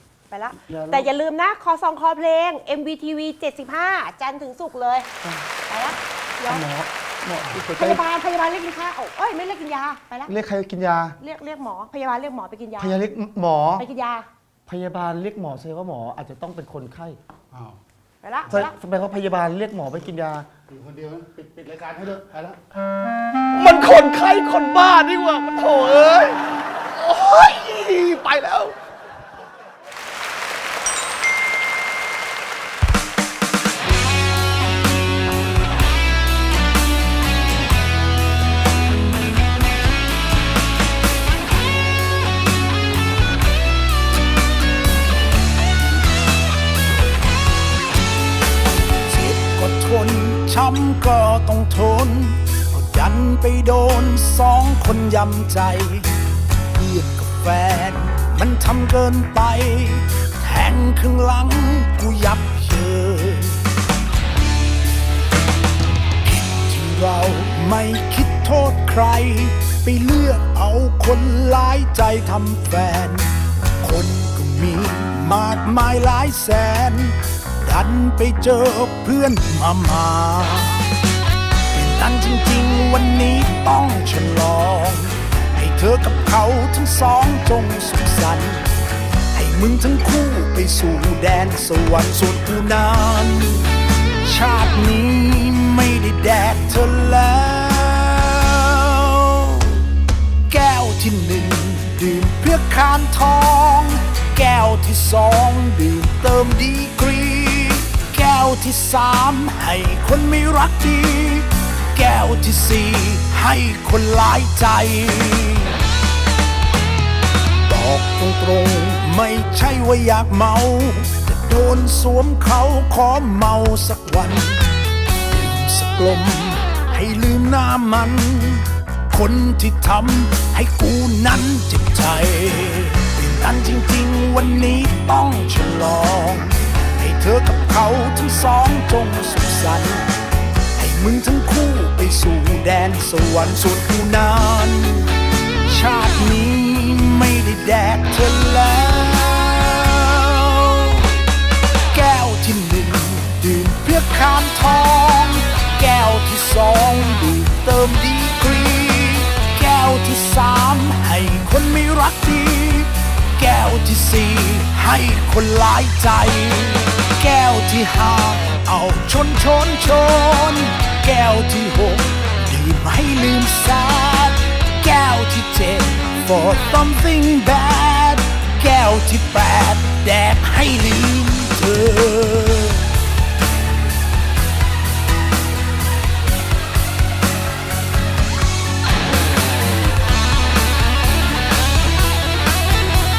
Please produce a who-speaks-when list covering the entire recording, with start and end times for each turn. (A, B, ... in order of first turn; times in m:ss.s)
0:00.3-0:05.1 A
0:00.6-0:01.1 B
0:05.2-0:05.5 B
0:05.7-0:06.6 A
0:06.5-0:08.0 B
0:06.7-0:07.6 C
0:07.7-0:10.3 A
0:10.2-0:11.2 B
0:11.2-0:13.0 A
0:12.8-0:13.8 B
0:13.8-0:14.3 A
0:14.7-0:17.2 B
0:17.5-0:17.8 C
0:18.2-0:18.7 A
0:18.5-0:20.5 B
0:20.7-0:22.6 C
0:23.5-0:28.8 B
0:49.0-0:56.1 D
0:56.7-1:03.6 D
1:06.2-1:20.8 D
1:21.7-1:28.7 D
1:29.3-1:39.9 D
1:40.5-1:55.8 D
1:57.6-2:04.7 D
2:05.3-2:20.0 D
2:20.8-2:31.2 D
2:31.9-3:02.8 D